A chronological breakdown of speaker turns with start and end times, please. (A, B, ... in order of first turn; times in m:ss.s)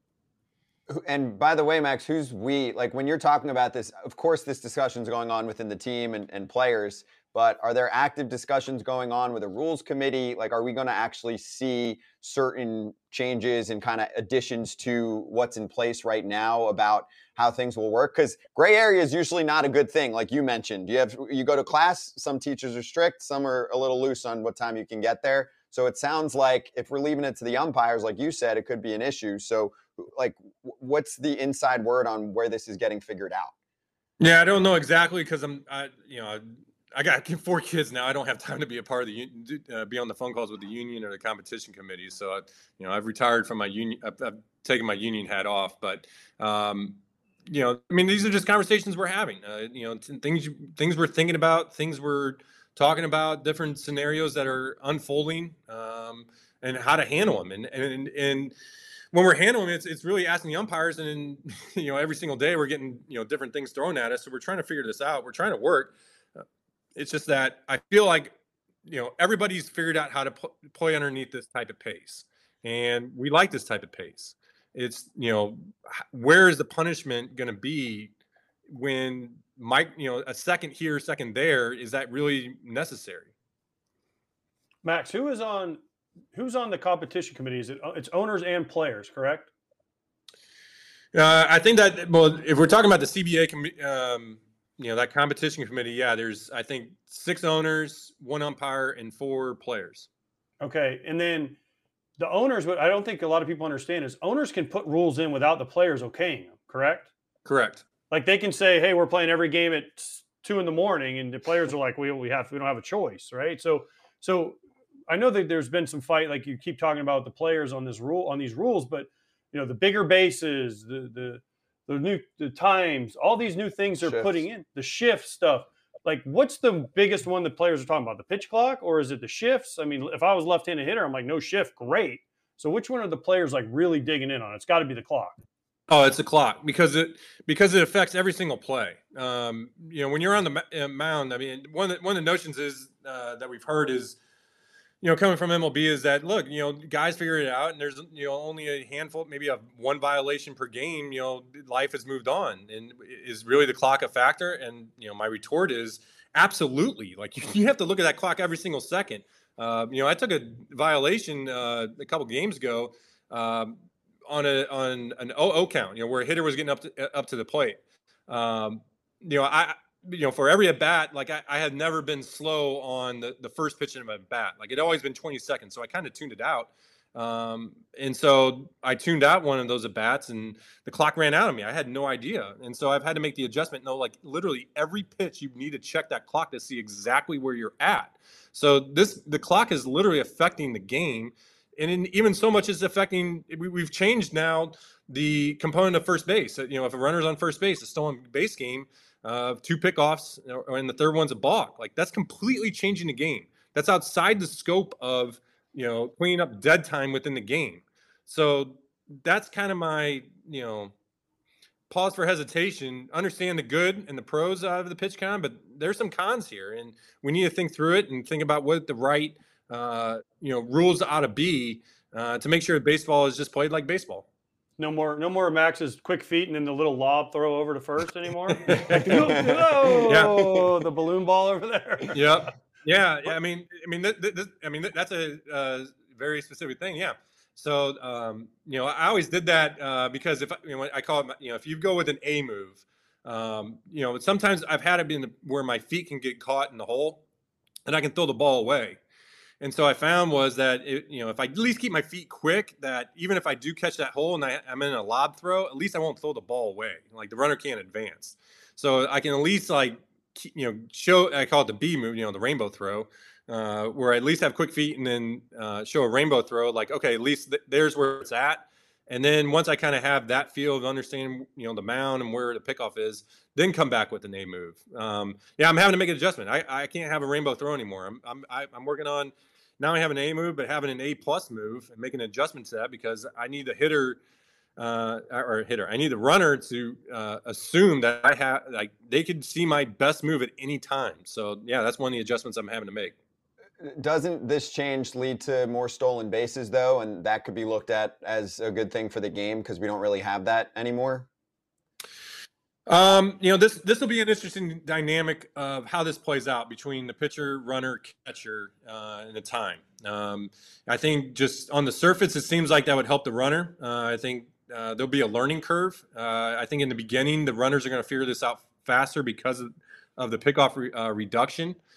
0:00.9-0:33.5 A
0:34.2-0:58.5 B
0:59.1-1:06.4 B
1:06.9-1:08.3 B
1:08.8-1:18.1 B
1:18.7-1:23.3 B
1:24.8-1:25.8 C
1:26.3-1:29.5 C
1:31.1-1:40.1 B
1:40.6-1:41.6 C
1:42.2-1:47.1 C
1:47.4-1:47.8 B
1:48.1-2:15.4 C
2:04.0-2:04.4 A
2:15.9-2:24.2 B
2:25.0-3:30.9 B
3:31.9-3:44.2 B
3:44.8-3:52.5 C
3:48.5-3:49.5 B
3:49.2-3:49.9 A
3:50.0-3:50.7 B
3:52.1-4:07.2 B
4:07.8-4:09.0 B
4:09.6-4:44.2 B
4:44.8-4:53.2 B
4:53.8-5:01.3 A
5:02.9-5:21.8 B